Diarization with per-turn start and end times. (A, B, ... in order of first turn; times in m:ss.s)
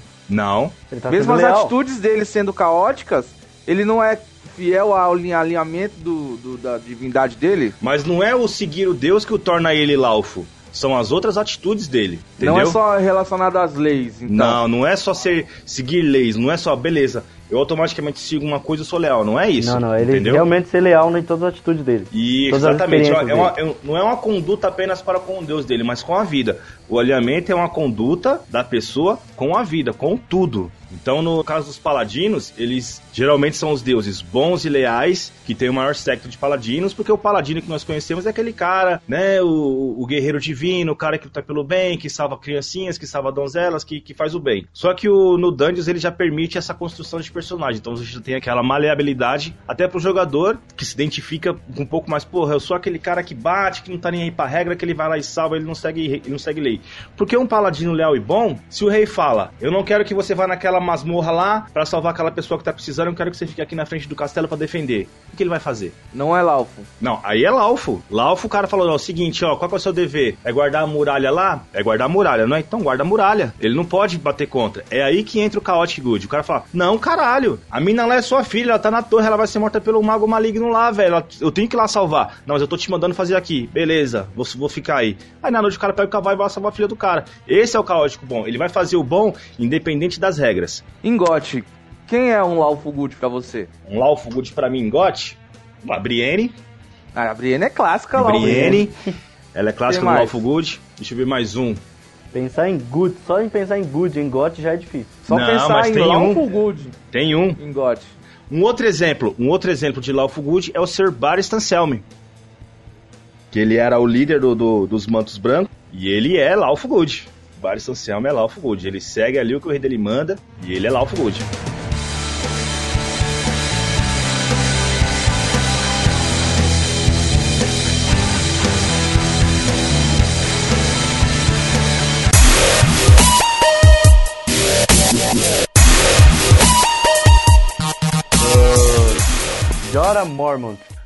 0:00.3-0:00.8 A
0:00.9-0:01.7 B
0:01.1-0:07.8 C
0:07.8-0:12.8 A
0:12.4-0:14.6 C
0:14.3-0:20.4 A
0:19.6-0:23.5 B
0:22.1-1:06.0 A
1:06.1-1:06.9 C
1:07.0-1:30.8 A
1:31.0-1:33.7 C
1:33.9-1:36.5 A
1:37.1-1:38.8 C
1:38.2-1:38.9 A
1:38.4-1:38.9 B
1:39.5-1:41.8 A
1:39.9-1:40.3 C
1:42.3-1:45.2 B
1:45.2-1:47.0 C
1:45.3-1:46.4 A
1:47.1-1:47.6 A
1:47.6-1:48.1 C
1:48.5-1:52.0 A
1:53.5-2:01.5 A
2:18.4-2:19.2 B
2:19.8-2:20.8 B